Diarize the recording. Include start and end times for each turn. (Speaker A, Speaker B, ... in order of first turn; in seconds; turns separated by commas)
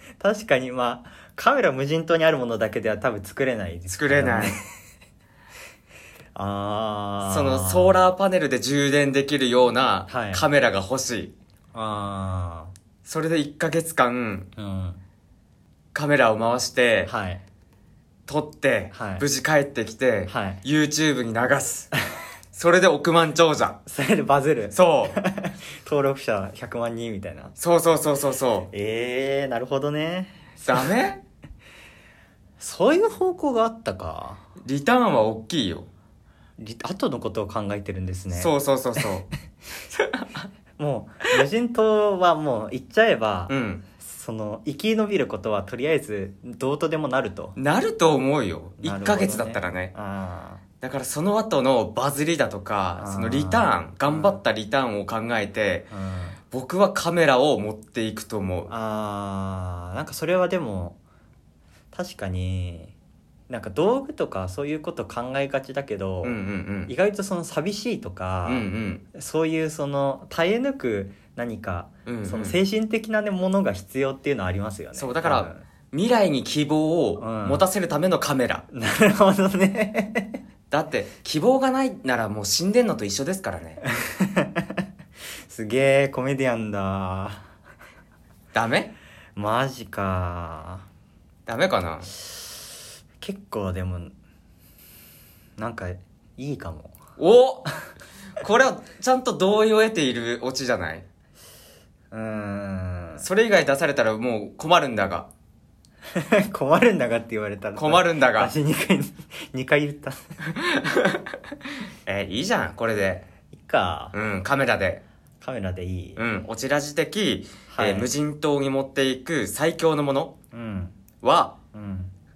Speaker A: 0.2-4.7, Speaker B: 3.9-4.6, Speaker A: 6.3-8.0, Speaker B: 7.2-11.3, Speaker A: 10.1-10.4, Speaker A: 11.7-12.7, Speaker B: 13.0-14.5, Speaker A: 14.6-15.0, Speaker B: 15.9-17.1, Speaker A: 17.0-17.4, Speaker B: 18.3-21.9, Speaker A: 18.9-19.2, Speaker A: 20.3-20.6, Speaker B: 22.5-23.8, Speaker A: 23.9-27.6, Speaker B: 24.7-25.2, Speaker B: 27.6-28.7, Speaker A: 28.7-30.9, Speaker B: 30.6-31.2, Speaker A: 32.6-34.4, Speaker B: 34.6-35.9, Speaker A: 36.6-38.5, Speaker B: 38.3-39.3, Speaker B: 39.9-40.3, Speaker A: 40.8-47.6, Speaker B: 43.5-43.8, Speaker B: 47.5-49.9, Speaker A: 48.8-50.6, Speaker B: 50.8-55.9, Speaker A: 53.0-54.4, Speaker A: 55.9-56.4, Speaker B: 56.5-58.7, Speaker A: 58.7-61.0, Speaker A: 61.9-62.9, Speaker A: 63.5-75.7, Speaker B: 66.2-66.9, Speaker B: 68.4-69.0, Speaker B: 72.0-72.6, Speaker B: 74.9-78.7, Speaker A: 77.2-77.6, Speaker A: 78.7-80.4, Speaker B: 80.7-83.8, Speaker A: 83.9-84.8, Speaker A: 85.5-87.5, Speaker B: 88.5-88.9, Speaker A: 89.3-90.8, Speaker B: 91.5-92.1, Speaker A: 93.2-94.1, Speaker A: 95.6-97.0, Speaker B: 97.2-97.7, Speaker B: 98.4-101.0, Speaker A: 102.1-103.2, Speaker B: 103.2-105.3, Speaker A: 106.1-110.3, Speaker B: 107.8-108.5, Speaker B: 110.6-111.3, Speaker B: 112.0-113.2, Speaker A: 113.5-114.1, Speaker B: 114.1-115.0, Speaker A: 115.4-116.2, Speaker B: 116.2-120.3, Speaker A: 117.7-118.1, Speaker A: 120.5-121.0, Speaker B: 121.2-121.6, Speaker A: 121.7-122.1